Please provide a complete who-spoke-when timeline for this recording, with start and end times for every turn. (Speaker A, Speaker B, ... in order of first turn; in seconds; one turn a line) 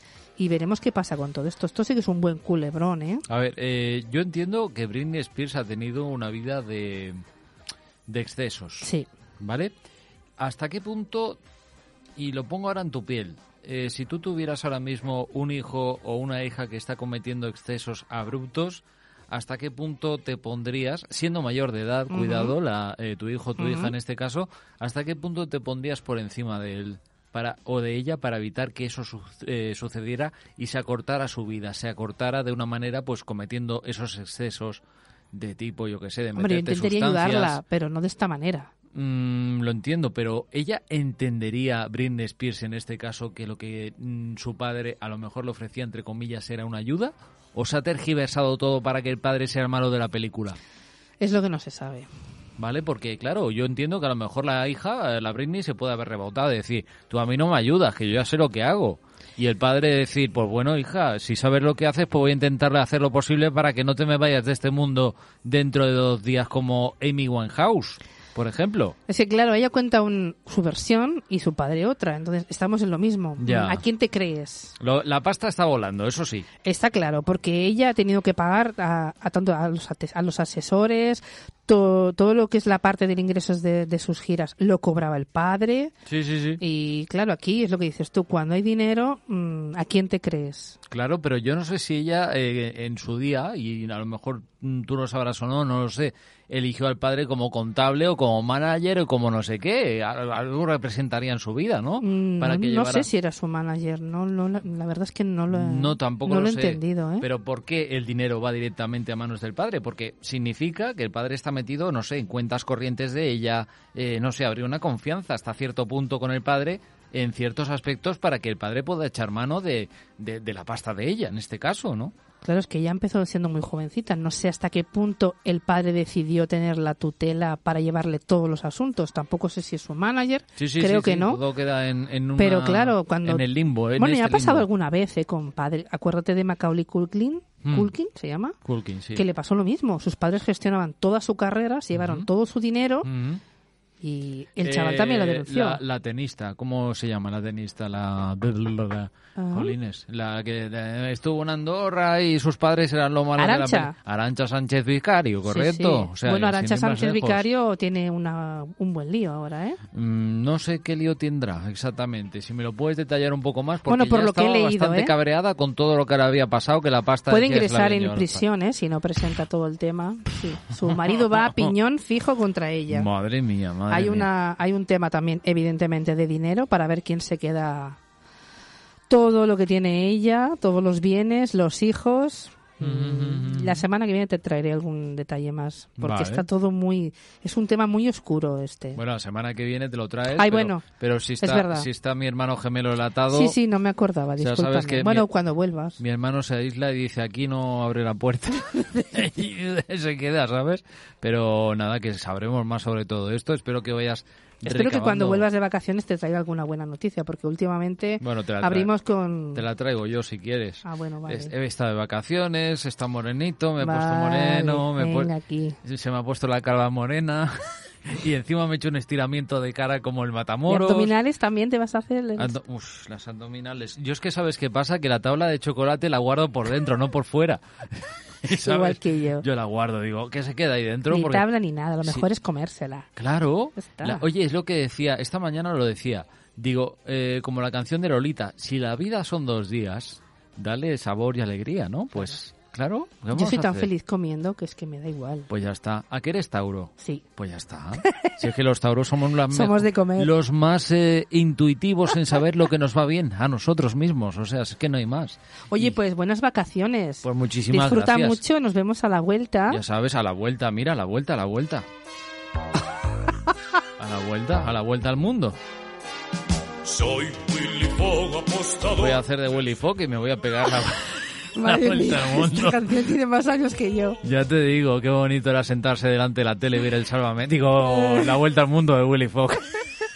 Speaker A: 0.4-3.2
Speaker B: 3.3-7.2
Speaker B: 8.1-9.7
Speaker A: 8.8-9.1
Speaker B: 10.4-11.4
Speaker B: 12.2-34.8
Speaker A: 22.1-22.5
Speaker A: 23.6-23.9
Speaker B: 35.3-37.6
Speaker A: 36.4-38.7
Speaker B: 38.9-50.6
Speaker A: 51.2-52.1
Speaker B: 52.6-69.0
Speaker A: 69.1-74.8
Speaker B: 73.4-73.8
Speaker B: 74.8-76.5
Speaker A: 76.6-85.9
Speaker B: 86.1-86.6
Speaker A: 86.6-90.8
Speaker B: 90.9-103.1
Speaker A: 102.0-107.3
Speaker B: 105.5-122.1
Speaker A: 122.4-131.4
Speaker B: 130.6-134.7
Speaker A: 132.4-138.6
Speaker B: 137.6-137.9
Speaker B: 138.6-139.2
Speaker A: 139.1-143.1
Speaker B: 141.9-142.3
Speaker B: 143.0-143.4
Speaker A: 144.0-145.8
Speaker B: 144.6-157.4
Speaker A: 149.4-149.8
Speaker A: 153.4-153.9
Speaker A: 155.5-159.8
Speaker B: 159.9-168.4
Speaker A: 163.9-165.1
Speaker A: 167.3-173.1
Speaker B: 171.0-171.7
Speaker B: 172.9-174.3
Speaker A: 173.9-178.0
Speaker A: 179.1-189.0
Speaker B: 182.8-183.8
Speaker B: 186.0-186.4
Speaker B: 188.9-193.6
Speaker A: 190.3-190.8
Speaker A: 191.4-191.9
Speaker A: 193.3-196.0
Speaker B: 194.4-195.3
Speaker B: 196.0-205.4
Speaker A: 204.7-209.6
Speaker B: 208.2-208.9
Speaker B: 209.5-215.3
Speaker A: 210.8-211.5
Speaker A: 213.8-215.8
Speaker B: 215.8-221.1
Speaker A: 220.7-222.6
Speaker B: 222.4-231.5
Speaker A: 228.5-229.4
Speaker A: 231.1-233.1
Speaker B: 233.2-243.9
Speaker A: 233.8-234.3
Speaker A: 243.3-245.5
Speaker B: 245.5-255.9
Speaker A: 247.0-247.3
Speaker A: 248.0-248.3
Speaker A: 249.5-250.3
Speaker A: 255.7-259.8
Speaker B: 257.2-258.4
Speaker B: 259.7-261.9
Speaker B: 264.0-265.6
Speaker C: 266.9-269.2
Speaker B: 268.9-272.9
Speaker A: 271.6-274.2
Speaker B: 274.2-279.8
Speaker A: 277.9-278.4